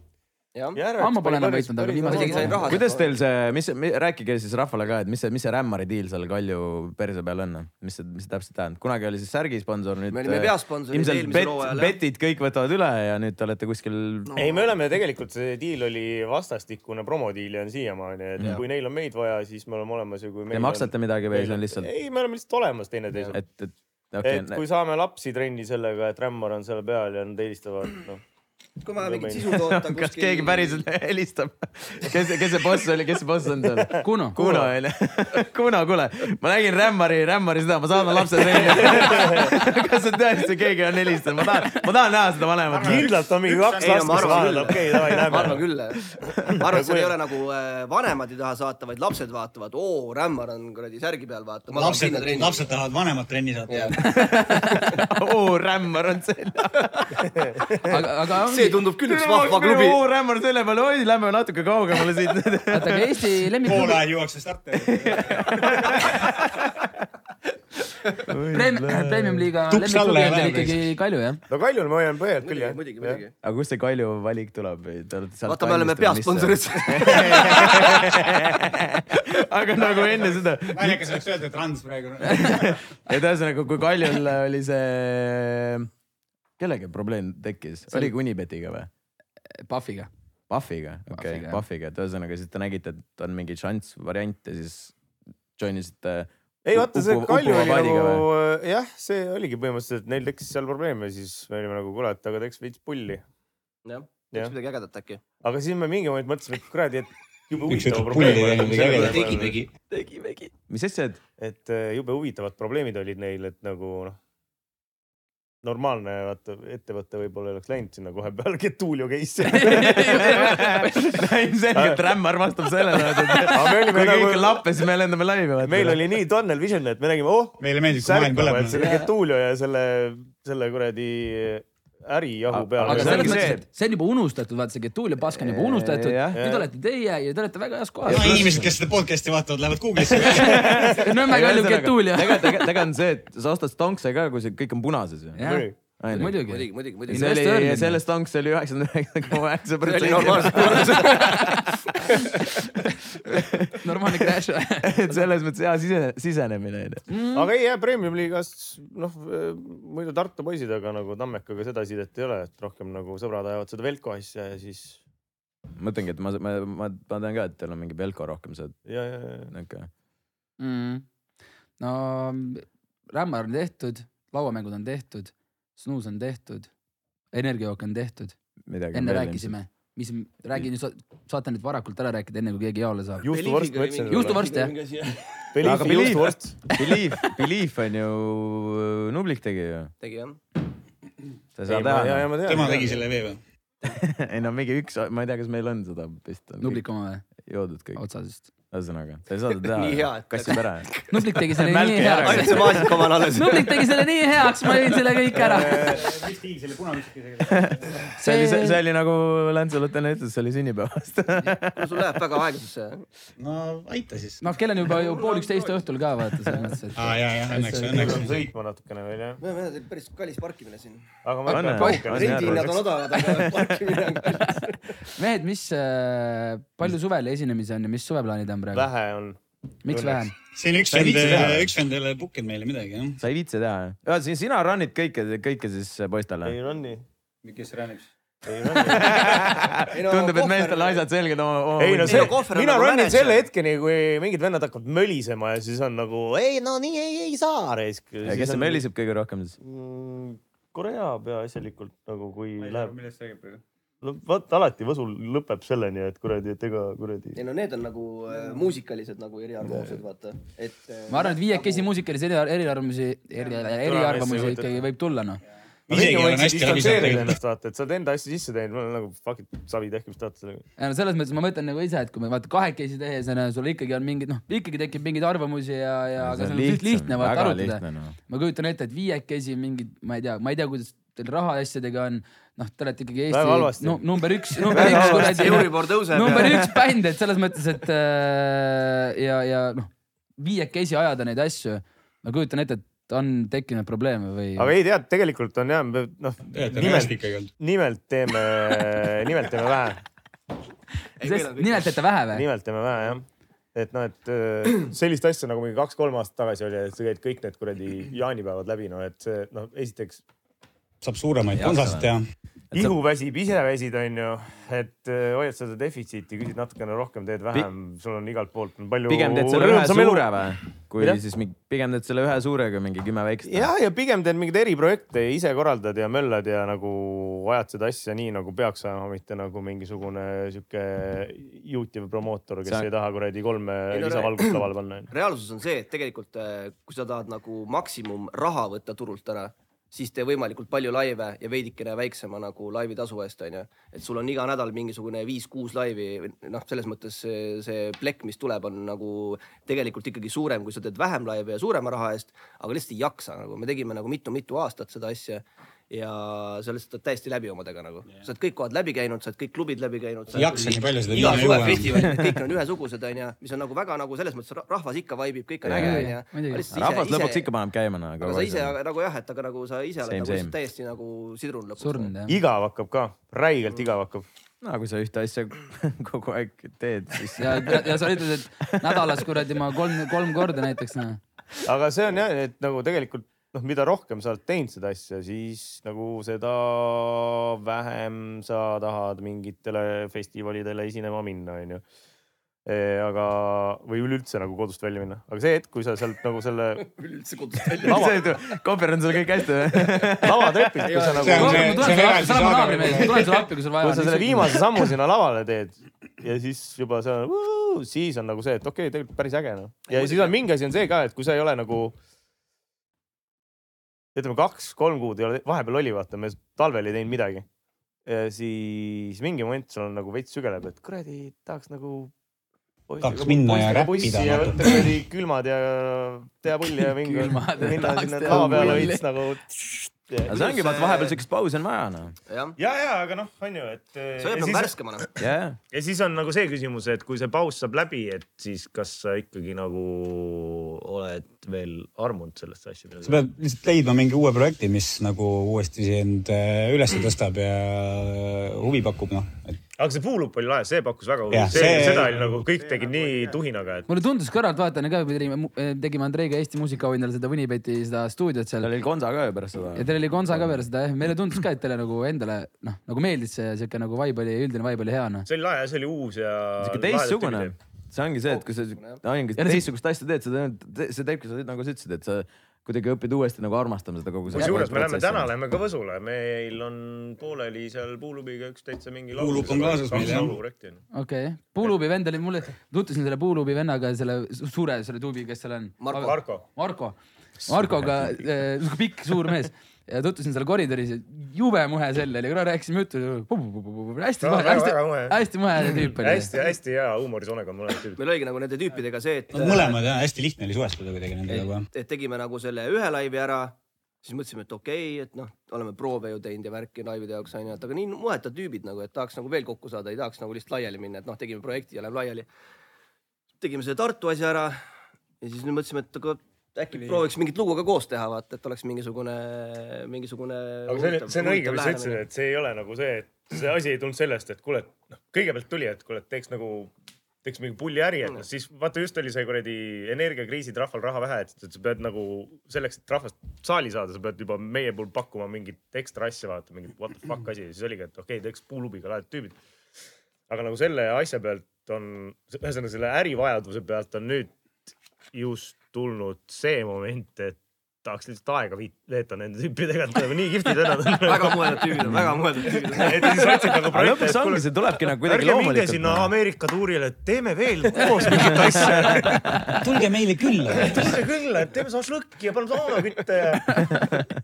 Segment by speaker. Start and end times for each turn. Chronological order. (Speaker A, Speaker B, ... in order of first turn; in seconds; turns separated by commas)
Speaker A: 0.5-0.8, Speaker B: 0.7-2.7, Speaker C: 1.0-2.6, Speaker A: 2.0-3.1, Speaker D: 2.6-14.3, Speaker A: 10.1-12.0, Speaker A: 14.3-14.6, Speaker B: 14.3-23.4, Speaker D: 20.5-21.9, Speaker D: 23.3-24.6, Speaker B: 24.2-28.2, Speaker A: 28.8-30.8, Speaker B: 29.0-29.6, Speaker D: 29.5-43.1, Speaker B: 33.8-34.7, Speaker C: 34.0-34.4, Speaker B: 38.7-39.5, Speaker E: 42.7-44.8, Speaker B: 42.8-45.6, Speaker A: 43.8-52.6, Speaker D: 46.1-46.5, Speaker B: 46.6-47.1, Speaker E: 51.7-54.0, Speaker A: 53.7-54.0, Speaker D: 54.0-57.1, Speaker C: 54.1-55.0, Speaker C: 57.9-58.8, Speaker A: 58.4-60.0, Speaker D: 59.0-63.2, Speaker C: 62.7-64.0, Speaker E: 63.6-66.2, Speaker D: 64.8-66.8, Speaker D: 68.2-69.4, Speaker C: 68.5-71.4, Speaker E: 69.7-70.8, Speaker B: 71.5-73.2, Speaker A: 72.4-73.3, Speaker D: 73.4-81.2, Speaker A: 75.5-78.1, Speaker E: 79.9-82.8, Speaker C: 82.3-82.5, Speaker D: 82.4-85.9, Speaker D: 86.6-88.9, Speaker C: 89.6-90.1, Speaker D: 90.5-95.0, Speaker C: 91.1-91.6, Speaker D: 95.6-98.2, Speaker B: 96.6-103.2, Speaker A: 103.8-105.2, Speaker B: 105.4-109.6, Speaker E: 107.7-109.6, Speaker D: 109.8-111.2, Speaker B: 111.4-114.2, Speaker B: 115.6-120.7, Speaker C: 119.4-121.0, Speaker D: 119.6-126.1, Speaker B: 121.7-122.1, Speaker B: 123.3-124.8, Speaker B: 125.6-133.5, Speaker E: 127.6-128.9, Speaker D: 128.7-129.1, Speaker D: 132.5-133.6, Speaker C: 132.8-138.5, Speaker D: 135.3-136.4, Speaker B: 136.3-136.7, Speaker D: 138.0-138.7, Speaker E: 138.1-140.8, Speaker D: 140.2-146.4, Speaker C: 140.9-142.8, Speaker C: 145.3-148.0, Speaker B: 145.4-145.8, Speaker A: 146.4-147.3, Speaker D: 147.1-157.1, Speaker A: 149.8-151.4, Speaker C: 151.0-151.7, Speaker C: 153.8-154.9, Speaker C: 157.1-157.5, Speaker B: 157.3-165.0, Speaker D: 165.8-168.7, Speaker B: 168.8-169.5, Speaker D: 169.5-169.9, Speaker C: 170.6-171.1, Speaker C: 171.8-176.7, Speaker C: 177.3-178.3, Speaker D: 178.7-179.5, Speaker C: 178.9-183.3, Speaker B: 183.2-184.4, Speaker A: 183.2-185.4, Speaker C: 184.1-184.7, Speaker B: 185.5-186.7, Speaker D: 185.6-189.9, Speaker A: 190.0-190.4, Speaker D: 191.6-192.4, Speaker B: 191.7-193.0, Speaker E: 192.4-193.4, Speaker D: 193.8-196.8, Speaker C: 196.6-197.2, Speaker D: 197.4-198.0, Speaker C: 197.9-198.5, Speaker D: 198.7-203.1, Speaker A: 199.6-201.1, Speaker C: 201.1-206.0, Speaker A: 202.2-203.9, Speaker E: 205.4-208.1, Speaker D: 207.4-212.2, Speaker C: 208.2-208.8, Speaker A: 211.8-213.0, Speaker E: 213.4-214.4, Speaker C: 214.4-218.2, Speaker A: 214.9-215.8, Speaker E: 216.9-218.4, Speaker B: 217.9-219.4, Speaker A: 219.4-224.9, Speaker B: 221.2-222.8, Speaker D: 221.5-223.8, Speaker C: 225.1-228.9, Speaker B: 228.7-230.3, Speaker C: 229.8-230.3, Speaker E: 230.5-233.2, Speaker D: 230.9-231.7, Speaker D: 233.2-236.6, Speaker B: 236.4-237.0, Speaker E: 237.4-238.1, Speaker B: 238.4-239.5, Speaker D: 238.8-242.4, Speaker A: 239.9-241.1, Speaker B: 241.8-248.8, Speaker A: 242.0-243.5, Speaker D: 248.2-249.6, Speaker B: 249.6-252.9, Speaker E: 252.6-253.6, Speaker B: 254.0-257.4, Speaker A: 257.4-261.9, Speaker C: 261.1-265.4, Speaker B: 263.8-264.8, Speaker E: 265.9-267.4, Speaker B: 265.9-270.6, Speaker C: 270.8-294.7, Speaker D: 276.2-278.1, Speaker B: 283.3-284.0, Speaker B: 284.5-285.6, Speaker A: 284.7-286.6, Speaker D: 284.8-285.6, Speaker D: 286.2-286.8, Speaker B: 294.6-300.0, Speaker E: 296.5-297.5, Speaker A: 301.2-302.0, Speaker C: 301.2-302.4, Speaker B: 302.3-310.2, Speaker E: 311.0-312.2, Speaker D: 311.5-312.1, Speaker B: 312.7-320.3, Speaker D: 319.1-323.7, Speaker B: 323.4-335.1, Speaker A: 333.9-367.5, Speaker E: 360.3-362.1, Speaker D: 361.9-362.4, Speaker D: 365.6-366.1, Speaker C: 365.7-366.6, Speaker D: 366.7-368.7, Speaker A: 368.2-372.1, Speaker D: 370.0-370.5, Speaker C: 371.8-372.4, Speaker B: 372.3-374.2, Speaker D: 374.6-379.2, Speaker C: 377.4-381.2, Speaker B: 381.6-391.8, Speaker B: 392.6-396.8, Speaker A: 396.8-398.2, Speaker D: 397.8-401.0, Speaker B: 400.2-401.9, Speaker A: 400.8-401.5, Speaker E: 401.2-403.3, Speaker C: 401.3-404.6, Speaker B: 403.8-411.9, Speaker A: 409.9-410.3, Speaker B: 414.1-417.4, Speaker B: 418.1-422.1, Speaker B: 422.9-430.4, Speaker E: 423.0-424.8, Speaker C: 426.8-429.0, Speaker D: 428.4-428.9, Speaker D: 430.3-432.1, Speaker A: 430.3-431.1, Speaker A: 432.3-432.6, Speaker B: 432.6-435.1, Speaker A: 434.2-435.1, Speaker D: 435.2-435.6, Speaker B: 435.7-443.2, Speaker E: 443.0-449.6, Speaker B: 449.8-453.9, Speaker E: 451.3-453.4, Speaker C: 453.9-458.7, Speaker D: 458.6-460.6, Speaker C: 459.7-465.3, Speaker B: 465.3-467.5, Speaker D: 466.6-475.3, Speaker A: 468.2-469.0, Speaker C: 469.4-469.6, Speaker B: 474.3-480.8, Speaker E: 479.1-480.4, Speaker C: 480.9-496.3, Speaker A: 485.8-486.1, Speaker B: 486.0-486.4, Speaker B: 494.2-495.2, Speaker B: 495.9-498.0, Speaker A: 498.0-499.8, Speaker E: 499.3-501.7, Speaker A: 501.4-512.3, Speaker A: 513.4-514.6, Speaker A: 515.2-522.0, Speaker B: 516.7-517.0, Speaker B: 520.7-526.7, Speaker B: 527.2-539.4, Speaker B: 540.3-544.3, Speaker B: 545.1-551.9, Speaker A: 551.0-553.6, Speaker D: 551.8-552.2, Speaker B: 552.5-559.2, Speaker D: 553.7-556.1, Speaker D: 558.1-559.6, Speaker E: 559.5-561.0, Speaker B: 560.5-563.8, Speaker D: 563.6-564.1